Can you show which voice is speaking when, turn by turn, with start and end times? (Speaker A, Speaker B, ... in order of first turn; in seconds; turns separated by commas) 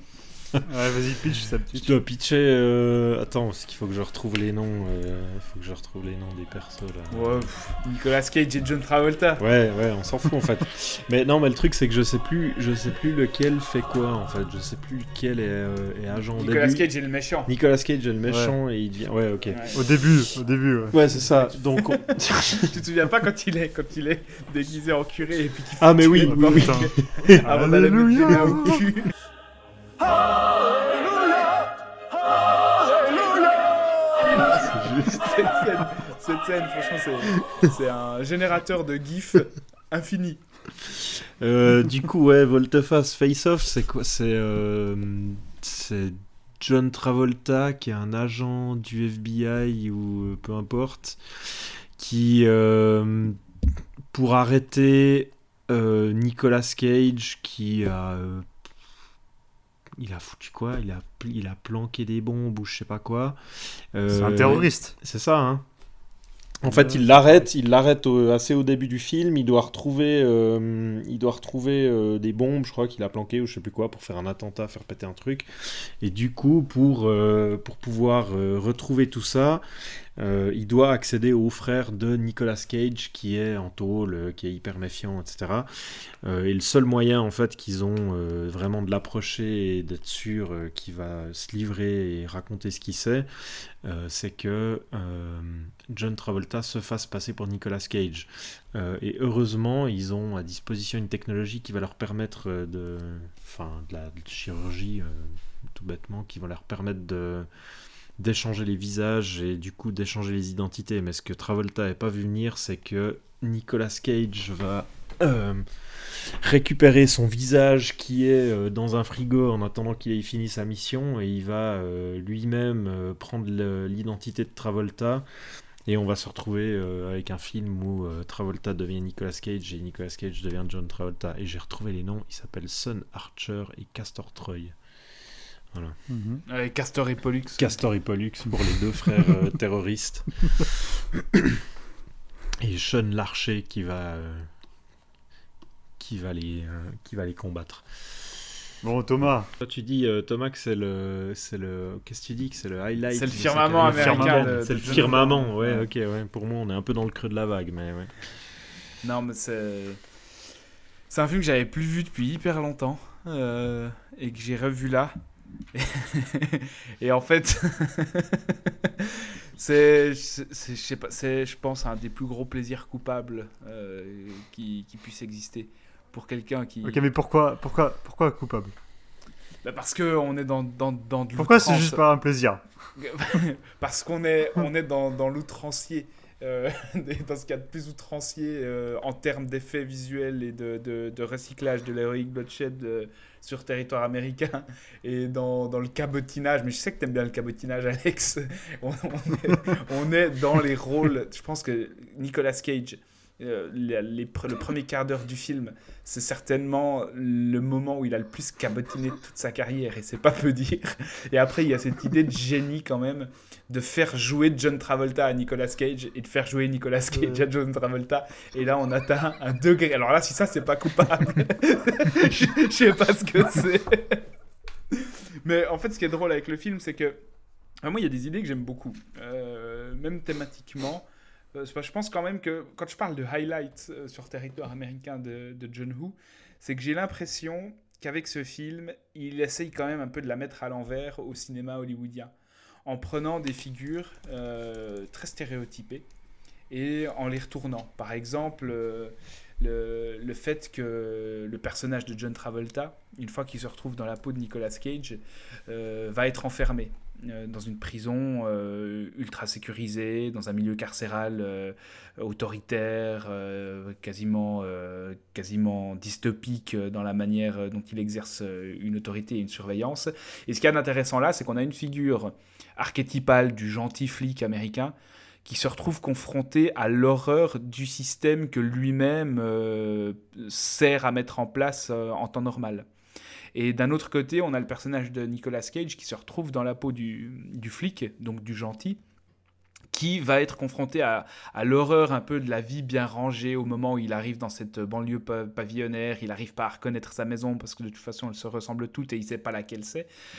Speaker A: 0.7-1.9, Speaker B: 1.7-7.5, Speaker C: 7.1-9.4, Speaker B: 9.4-16.9, Speaker C: 16.3-17.5, Speaker B: 17.4-19.7, Speaker A: 18.3-18.5, Speaker C: 19.5-19.8, Speaker A: 19.7-21.0, Speaker B: 20.9-22.8, Speaker C: 21.1-29.1, Speaker B: 25.8-27.4, Speaker A: 26.2-26.9, Speaker A: 27.4-28.8, Speaker C: 32.9-33.6, Speaker C: 34.2-40.4, Speaker B: 34.7-35.3, Speaker B: 40.9-53.4, Speaker B: 54.1-58.5, Speaker B: 60.0-65.6, Speaker A: 64.1-64.9, Speaker B: 66.6-79.6, Speaker A: 66.7-67.1, Speaker B: 80.2-107.5, Speaker B: 108.2-125.3, Speaker B: 125.8-134.7, Speaker B: 135.7-136.0, Speaker A: 136.1-136.4, Speaker C: 136.5-137.8, Speaker B: 137.6-140.7, Speaker B: 142.6-144.5, Speaker B: 146.0-147.9, Speaker A: 148.8-149.5, Speaker B: 149.6-158.1, Speaker C: 153.1-155.8, Speaker A: 153.8-155.1, Speaker C: 159.0-160.0, Speaker C: 161.1-165.1, Speaker C: 165.7-177.1, Speaker A: 176.8-178.7, Speaker C: 179.6-182.0, Speaker A: 181.3-182.6, Speaker C: 183.0-224.2, Speaker A: 217.1-217.4, Speaker C: 224.9-227.2, Speaker C: 227.8-242.3, Speaker C: 242.8-246.1, Speaker C: 246.7-282.9, Speaker C: 283.5-289.0, Speaker C: 289.9-300.1